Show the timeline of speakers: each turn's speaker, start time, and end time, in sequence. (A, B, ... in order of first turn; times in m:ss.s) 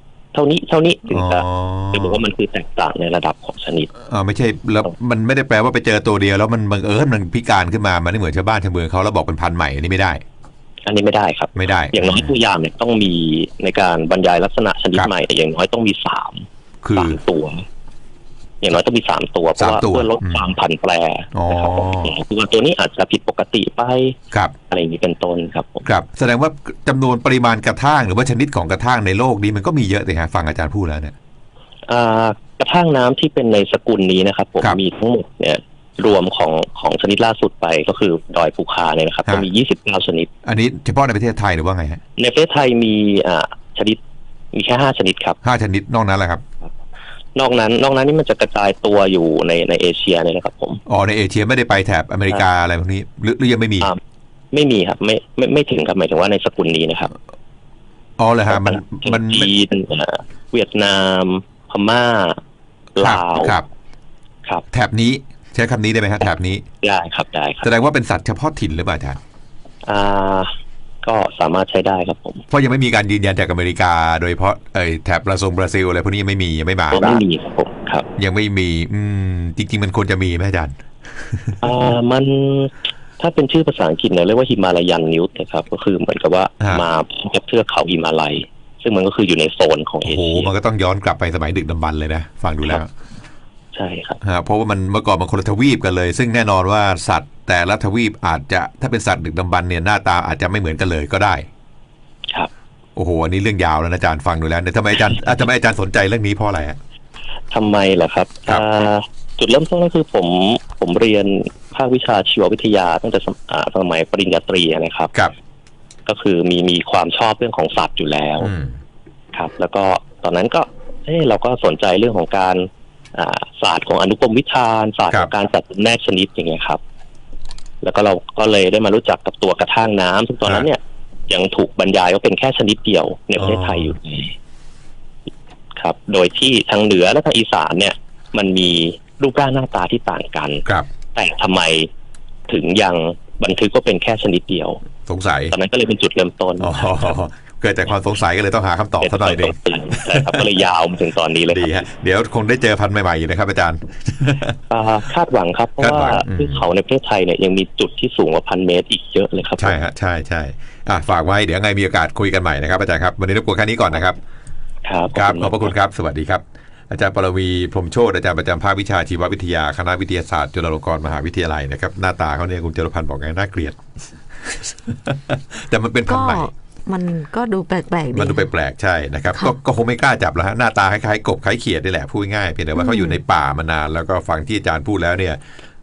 0:00.3-0:03.9 A
0:01.1-0:02.2 B
0:04.0-0:10.2 B
0:10.8-0:17.6 A
0:11.5-0:12.3 B
0:16.8-0:17.2 B
0:18.6-0:24.2 A
0:19.6-0:20.5 B
0:21.3-0:22.1 B
0:24.7-0:25.9 A
0:25.8-0:31.1 B
0:31.9-0:40.3 A
0:40.4-0:42.0 B
0:42.2-0:44.0 A
0:44.5-0:45.4 A
0:45.4-0:46.4 B
0:47.3-0:50.8 A
0:50.8-0:53.9 B
0:54.5-0:57.1 A
0:58.2-0:59.5 B
0:58.5-1:02.4 A
1:03.0-1:03.5 A
1:03.0-1:03.7 B
1:04.7-1:06.6 B
1:06.8-1:07.7 A
1:07.6-1:09.2 B
1:09.8-1:10.5 A
1:11.0-1:12.4 A
1:12.5-1:17.2 B
1:16.9-1:18.1 A
1:18.2-1:21.6 B
1:21.6-1:30.5 A
1:30.0-1:32.9 B
1:33.7-1:34.2 A
1:34.2-1:41.5 B
1:43.0-1:46.8 B
1:47.5-1:55.1 A
1:56.0-1:58.5 A
1:58.4-1:58.8 B
1:59.3-2:06.8 A
2:07.8-2:14.3 A
2:13.4-2:13.9 B
2:15.8-2:20.6 A
2:21.1-2:21.9 A
2:22.5-2:24.8 A
2:25.0-2:25.5 B
2:25.5-2:27.0 A
2:26.6-2:30.5 B
2:29.0-2:31.8 A
2:31.5-2:34.5 B
2:34.7-2:39.8 A
2:35.8-2:36.6 B
2:39.6-2:44.2 B
2:44.8-2:45.7 A
2:45.1-2:53.8 B
2:54.4-2:56.5 B
2:56.1-2:58.5 C
2:58.1-3:05.4 B
3:02.8-3:03.2 C